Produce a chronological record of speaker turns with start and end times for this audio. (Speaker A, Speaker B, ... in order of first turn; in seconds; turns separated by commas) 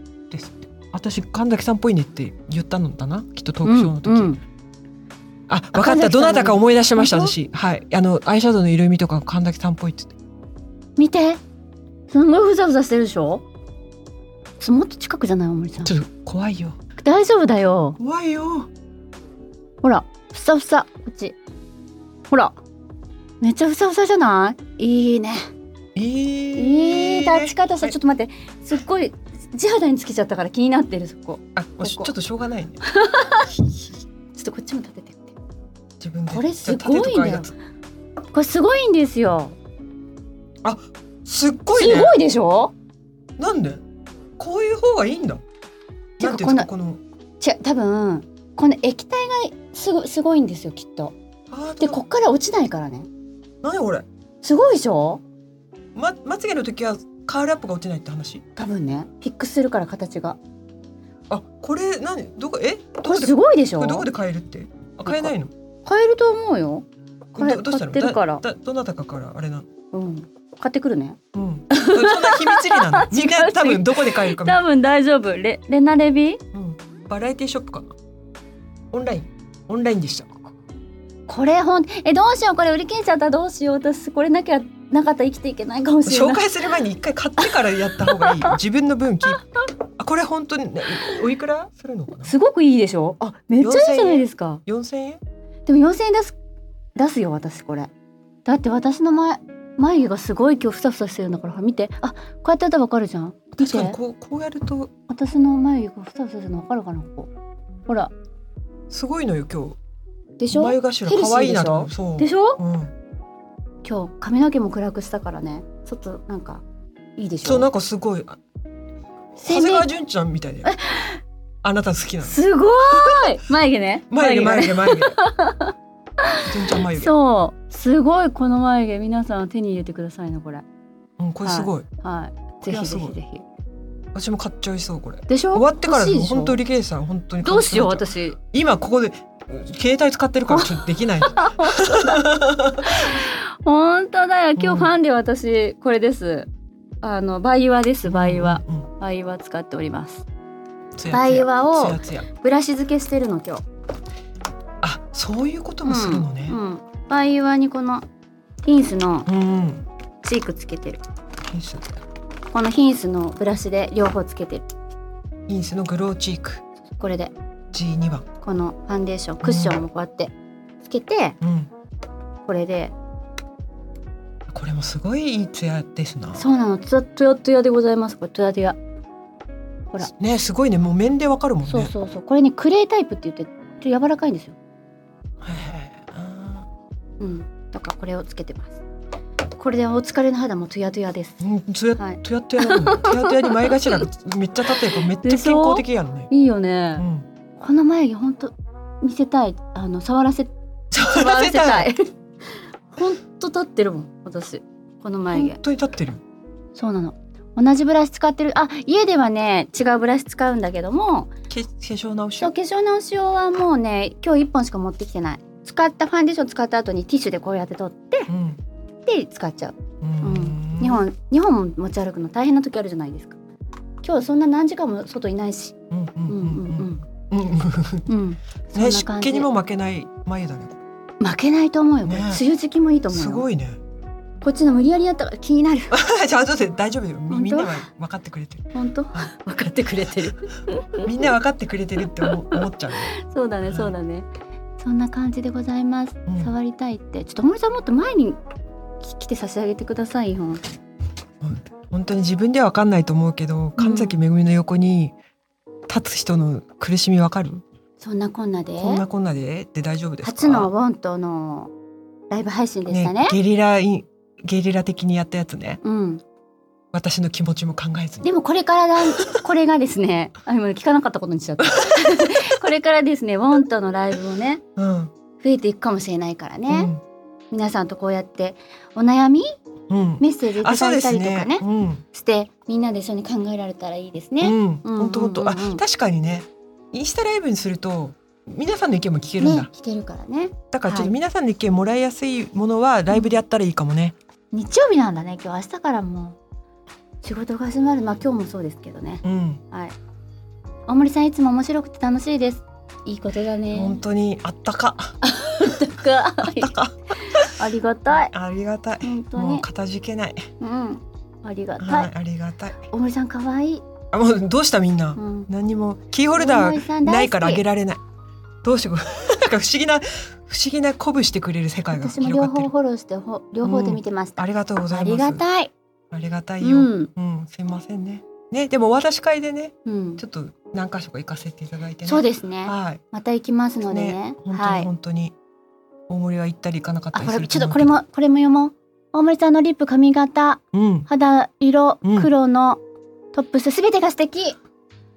Speaker A: 0.3-4.4, Speaker B: 3.6-4.4, Speaker A: 5.5-10.2, Speaker B: 5.7-7.3, Speaker B: 11.0-11.4, Speaker B: 12.1-13.4, Speaker B: 14.6-15.9, Speaker A: 15.8-16.8, Speaker B: 17.0-18.0, Speaker A: 18.0-18.7, Speaker B: 19.8-21.4, Speaker B: 22.3-22.6, Speaker B: 23.4-25.4, Speaker A: 25.9-27.9, Speaker B: 26.6-32.1, Speaker A: 31.6-32.8, Speaker B: 32.8-33.5, Speaker B: 34.3-35.3, Speaker A: 36.0-37.5, Speaker B: 36.3-37.5, Speaker B: 38.3-39.5, Speaker A: 40.6-42.1, Speaker B: 41.7-42.7, Speaker A: 43.4-43.8, Speaker A: 44.4-45.4, Speaker A: 46.2-47.0, Speaker B: 46.2-46.7, Speaker B: 47.4-51.1, Speaker A: 51.5-52.0, Speaker B: 51.8-53.1, Speaker A: 53.6-54.0, Speaker B: 54.4-55.2, Speaker A: 55.9-58.4, Speaker B: 58.5-60.4, Speaker A: 61.3-65.5, Speaker B: 63.0-64.1, Speaker B: 65.0-65.3, Speaker B: 65.8-66.8, Speaker A: 67.3-69.7, Speaker B: 67.4-68.4, Speaker B: 69.9-71.2, Speaker A: 71.3-74.6, Speaker B: 71.7-76.4, Speaker A: 76.5-77.9, Speaker A: 78.9-80.4, Speaker B: 81.3-86.5, Speaker A: 86.0-92.3, Speaker B: 87.4-88.6, Speaker B: 92.2-94.6, Speaker A: 93.6-95.2, Speaker B: 95.7-96.4, Speaker B: 97.0-97.9, Speaker B: 98.5-104.0, Speaker A: 103.6-104.9, Speaker B: 105.1-107.3, Speaker A: 108.9-109.8, Speaker B: 110.4-112.6, Speaker A: 110.5-112.9, Speaker B: 113.8-116.6, Speaker B: 117.2-117.7, Speaker A: 117.4-118.4, Speaker B: 119.4-119.9, Speaker A: 119.4-120.7, Speaker B: 120.6-121.2, Speaker A: 121.6-123.3, Speaker B: 122.2-130.6, Speaker A: 124.1-125.2, Speaker A: 126.4-127.1, Speaker A: 131.2-131.8, Speaker B: 131.4-133.4, Speaker A: 132.6-133.1, Speaker A: 134.1-143.1, Speaker B: 135.3-136.6, Speaker B: 137.4-138.4, Speaker B: 140.5-142.3, Speaker B: 142.8-146.5, Speaker A: 144.6-144.9, Speaker B: 147.0-150.2, Speaker A: 148.0-148.9, Speaker A: 151.0-152.3, Speaker B: 151.1-153.6, Speaker A: 154.8-156.6, Speaker B: 155.8-158.0, Speaker B: 158.6-159.3, Speaker A: 159.2-159.8, Speaker B: 160.2-161.0, Speaker A: 161.5-162.0, Speaker B: 162.5-164.7, Speaker A: 165.5-166.6, Speaker B: 166.9-167.3, Speaker A: 167.7-168.2, Speaker B: 168.4-171.4, Speaker A: 169.4-169.8, Speaker A: 171.4-171.7, Speaker B: 172.5-172.9, Speaker A: 174.5-176.4, Speaker B: 176.3-178.8, Speaker A: 180.0-181.9, Speaker B: 181.7-184.6, Speaker A: 185.4-186.7, Speaker B: 187.2-188.8, Speaker B: 189.6-191.4, Speaker A: 191.4-196.3, Speaker B: 192.0-194.0, Speaker B: 195.0-197.1, Speaker A: 196.9-197.2, Speaker B: 197.6-202.1, Speaker A: 200.9-201.9, Speaker B: 202.9-205.6, Speaker A: 205.3-206.2, Speaker B: 206.7-211.3, Speaker A: 211.5-212.5, Speaker B: 212.4-218.3, Speaker A: 218.3-218.6, Speaker B: 219.1-223.4, Speaker A: 220.0-221.0, Speaker B: 224.0-225.8, Speaker A: 225.9-228.1, Speaker B: 226.3-227.0, Speaker B: 228.1-229.5, Speaker A: 228.7-230.8, Speaker B: 231.2-233.4, Speaker A: 232.0-232.4, Speaker A: 233.1-233.8, Speaker B: 234.4-236.0, Speaker A: 235.9-239.3, Speaker B: 237.3-237.9, Speaker B: 238.7-241.1, Speaker A: 241.0-243.1, Speaker B: 242.1-244.3, Speaker A: 243.7-243.9, Speaker B: 244.8-248.4, Speaker A: 246.3-246.5, Speaker B: 249.0-250.6, Speaker A: 251.4-255.1, Speaker B: 253.8-254.2, Speaker A: 255.9-257.6, Speaker B: 258.0-259.0, Speaker A: 258.8-260.7, Speaker B: 260.2-261.7, Speaker B: 262.3-263.4, Speaker A: 262.9-265.8, Speaker B: 265.8-266.2, Speaker A: 266.9-268.3, Speaker B: 268.2-274.6, Speaker A: 269.1-269.4, Speaker A: 271.6-272.2, Speaker A: 274.8-275.1, Speaker B: 275.4-276.9, Speaker A: 276.7-277.0, Speaker B: 277.5-279.5, Speaker A: 279.9-282.0, Speaker B: 280.2-285.8, Speaker A: 284.4-289.7, Speaker B: 289.4-291.1, Speaker A: 290.7-294.1, Speaker B: 293.1-293.4, Speaker B: 294.5-296.4, Speaker B: 297.2-299.9, Speaker A: 299.2-299.6, Speaker B: 300.9-304.0, Speaker A: 303.7-305.1, Speaker B: 305.2-308.3, Speaker A: 306.4-307.6, Speaker A: 308.3-310.5, Speaker B: 309.0-309.7, Speaker B: 310.6-312.1, Speaker A: 311.8-312.8, Speaker B: 312.8-313.8, Speaker A: 314.1-318.0, Speaker B: 315.1-315.5, Speaker B: 316.4-317.6, Speaker A: 318.6-322.7, Speaker B: 321.9-325.7, Speaker A: 323.6-325.4, Speaker A: 326.1-333.0, Speaker B: 326.6-327.1, Speaker B: 329.8-330.2, Speaker B: 332.0-334.9, Speaker A: 333.9-335.3, Speaker A: 336.1-338.0, Speaker B: 337.1-342.8, Speaker A: 340.7-341.1, Speaker A: 342.0-342.3, Speaker B: 343.3-344.6